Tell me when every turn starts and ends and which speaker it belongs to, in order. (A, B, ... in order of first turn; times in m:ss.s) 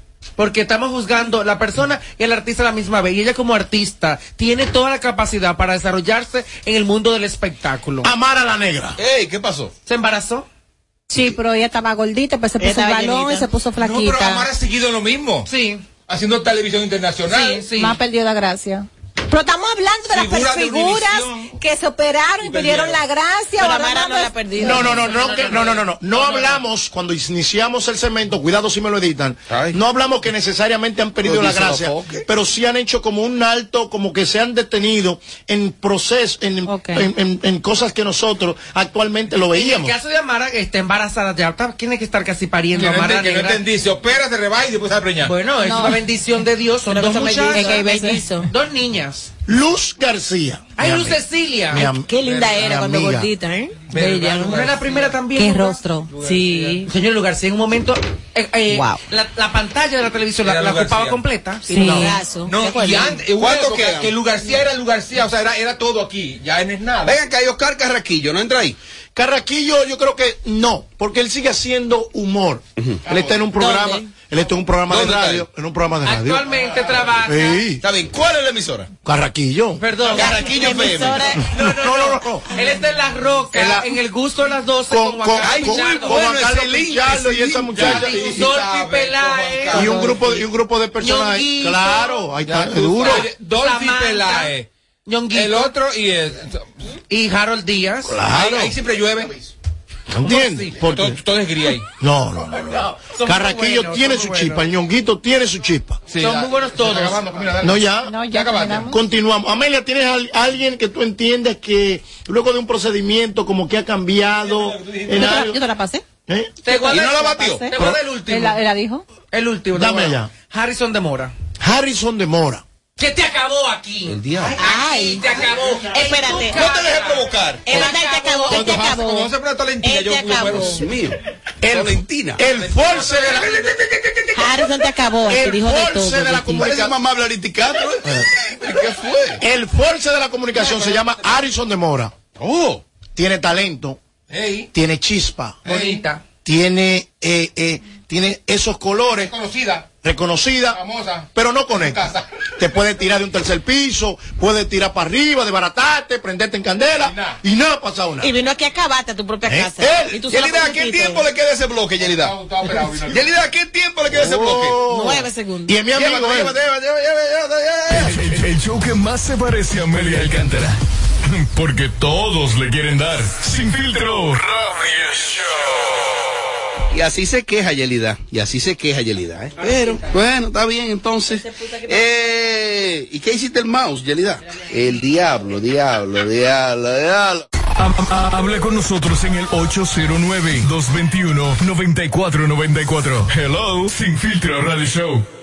0:00.4-0:08.1 A
0:08.0-0:09.0 B
0:09.0-0:09.7 C
0:09.8-0:10.5 A
0:11.1-0:14.5 D
0:12.6-0:13.5 E
0:13.8-0:15.5 F
0:15.5-0:15.8 A
0:16.1-0:17.7 F
0:17.3-0:18.0 A
0:17.3-0:25.4 D
0:20.1-0:21.5 F
0:22.4-0:23.0 F
0:23.6-0:25.4 E
0:24.6-0:40.0 B
0:25.2-0:25.8 A
0:29.5-0:29.8 C
0:31.2-0:32.2 C
0:36.7-0:37.0 D
0:39.5-0:43.6 A
0:42.8-0:45.4 F
0:45.2-0:49.3 A
0:45.6-0:46.0 D
0:46.9-0:48.5 E
0:47.5-0:48.2 D
0:49.5-0:53.3 B
0:50.8-0:51.9 A
0:52.0-0:54.5 E
0:52.2-0:52.6 F
0:53.9-0:55.2 F
0:54.1-0:55.8 A
0:55.4-0:56.1 D
0:56.1-0:56.9 F
0:56.2-0:56.8 E
0:56.8-1:01.7 A
0:58.7-0:59.0 E
1:00.4-1:01.2 F
1:01.7-1:03.2 E
1:01.7-1:02.1 D
1:01.8-1:02.1 B
1:02.4-1:07.2 F
1:03.4-1:04.1 C
1:07.0-1:08.8 C
1:09.2-1:16.5 B
1:13.5-1:14.1 E
1:14.9-1:15.4 C
1:16.0-1:17.6 A
1:16.7-1:16.9 F
1:17.2-1:17.8 B
1:17.8-1:18.9 C
1:19.0-1:19.8 B
1:19.8-1:20.9 A
1:20.1-1:21.3 C
1:20.2-1:21.5 E
1:21.3-1:22.5 B
1:21.5-1:26.2 A
1:23.5-1:24.0 B
1:24.9-1:28.4 B
1:25.4-1:28.0 C
1:27.7-1:30.2 F
1:27.8-1:30.3 A
1:29.7-1:33.3 B
1:31.0-1:32.3 A
1:32.4-1:34.7 F
1:33.0-1:34.5 A
1:35.1-1:35.7 A
1:35.3-1:36.6 F
1:37.1-1:38.2 A
1:38.0-1:38.7 B
1:38.3-1:39.4 F
1:40.1-1:41.2 B
1:40.3-1:40.7 A
1:40.8-1:41.9 F
1:42.0-1:46.0 B
1:43.0-1:44.7 A
1:46.1-1:48.9 F
1:46.2-1:47.4 A
1:47.6-1:48.2 B
1:48.1-1:49.0 D
1:48.9-1:55.6 B
1:54.4-1:55.4 F
1:55.1-1:56.0 D
1:56.3-1:56.6 B
1:56.6-1:58.6 A
1:56.9-1:57.7 C
1:57.2-1:57.6 E
1:58.3-1:59.0 D
1:59.3-2:01.3 A
1:59.7-2:00.3 B
2:01.6-2:02.6 B
2:03.0-2:08.8 A
2:04.1-2:04.6 C
2:04.6-2:05.2 E
2:05.9-2:06.6 E
2:06.4-2:08.0 C
2:07.7-2:09.3 E
2:08.5-2:10.9 F
2:09.8-2:10.9 E
2:10.5-2:12.4 C
2:11.6-2:13.6 B
2:12.5-2:14.4 F
2:14.4-2:16.7 E
2:15.2-2:16.9 B
2:16.6-2:19.4 C
2:19.4-2:22.1 B
2:20.7-2:21.0 F
2:22.4-2:22.8 C
2:23.2-2:24.0 B
2:24.3-2:24.7 F
2:24.7-2:25.6 B
2:25.6-2:26.0 F
2:25.6-2:26.2 A
2:26.4-2:29.3 B
2:29.3-2:29.9 F
2:30.0-2:30.8 B
2:30.7-2:32.3 F
2:31.3-2:38.3 B
2:37.0-2:37.4 F
2:38.2-2:41.3 E
2:39.4-2:40.3 B
2:40.3-2:42.4 C
2:42.0-2:43.3 F
2:43.1-2:44.8 C
2:44.1-2:46.6 B
2:44.8-2:45.8 E
2:45.9-2:48.4 C
2:48.0-2:55.4 G
2:56.9-3:07.4 C
3:07.8-3:15.3 G